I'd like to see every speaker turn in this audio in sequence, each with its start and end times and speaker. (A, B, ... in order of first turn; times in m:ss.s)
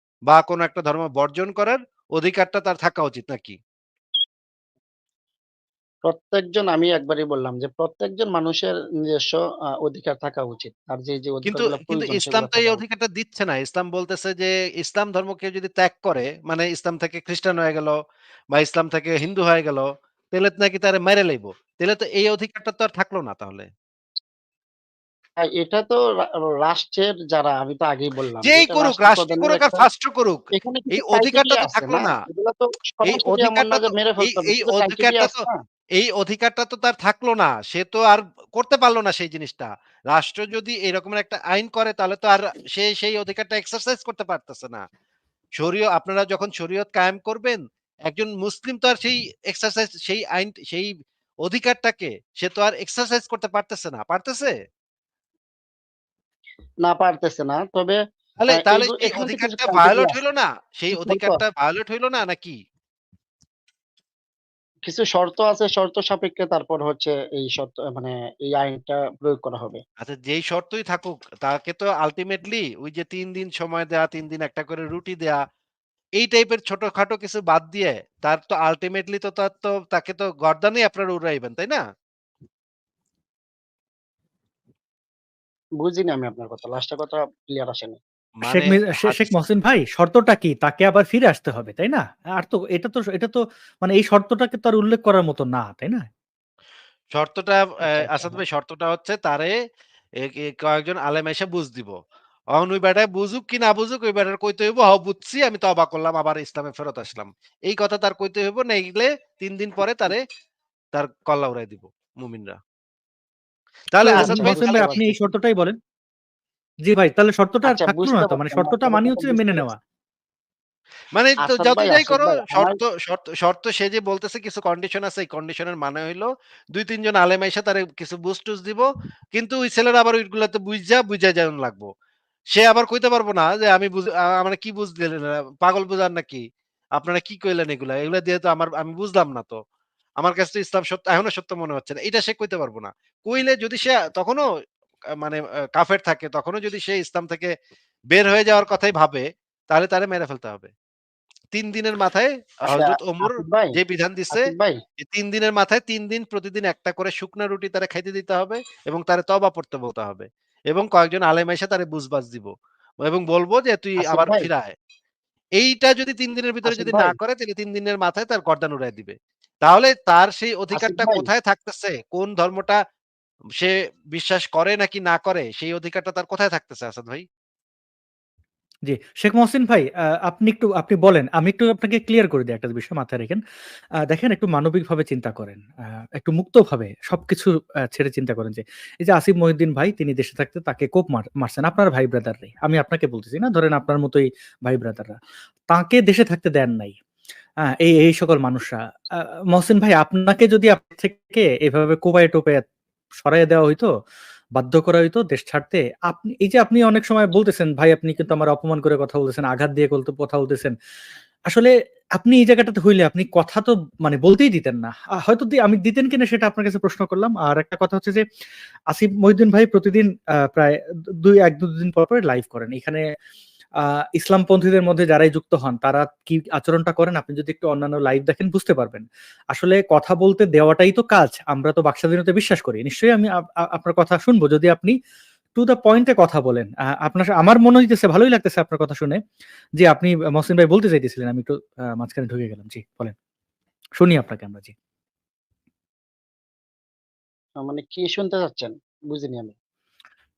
0:00.3-0:03.6 A
0:06.1-0:12.8 B
0:11.4-0:17.9 A
0:18.5-0:23.7 A
0:25.4-0:29.8 B
0:28.4-0:32.2 A
0:30.6-0:35.6 B
0:33.0-0:35.4 A
0:36.0-0:44.8 A
0:45.6-0:50.9 A
0:51.4-0:54.5 A
0:56.8-1:00.2 B
0:58.4-1:02.6 A
1:01.0-1:01.4 B
1:04.9-1:09.8 B
1:10.0-1:15.4 A
1:16.2-1:21.8 A
1:25.8-1:28.0 B
1:28.4-1:29.4 A
1:28.4-1:36.1 C
1:37.1-1:39.6 A
1:40.2-1:41.9 A
1:42.6-1:50.2 A
1:50.9-1:52.6 A
1:53.9-1:55.1 A
1:54.0-1:55.8 C
1:54.1-1:55.1 B
1:56.8-1:59.8 C
1:57.6-1:59.7 B
2:01.2-2:11.9 A
2:01.4-2:02.8 B
2:12.5-2:16.4 A
2:17.0-2:19.6 A
2:20.2-2:24.4 A
2:25.2-2:27.5 A
2:28.1-2:30.7 A
2:31.5-2:34.4 A
2:32.7-2:33.8 B
2:34.3-2:34.8 B
2:35.0-2:42.5 A
2:43.0-2:44.7 A
2:44.0-2:44.5 B
2:45.6-2:52.8 A
2:46.6-2:47.2 B
2:50.7-2:51.2 B
2:53.6-2:57.2 A
2:58.9-3:03.4 C
3:04.1-3:05.6 C
3:06.2-3:15.2 C
3:15.7-3:17.0 C
3:17.8-3:18.8 C
3:19.5-3:22.6 C
3:23.2-3:23.9 C
3:24.6-3:30.7 C
3:31.5-3:38.2 C
3:38.9-3:43.0 C
3:44.2-3:54.9 C
3:55.6-3:59.2 C
3:59.8-4:03.1 C
4:04.0-4:04.7 C
4:07.6-4:09.5 B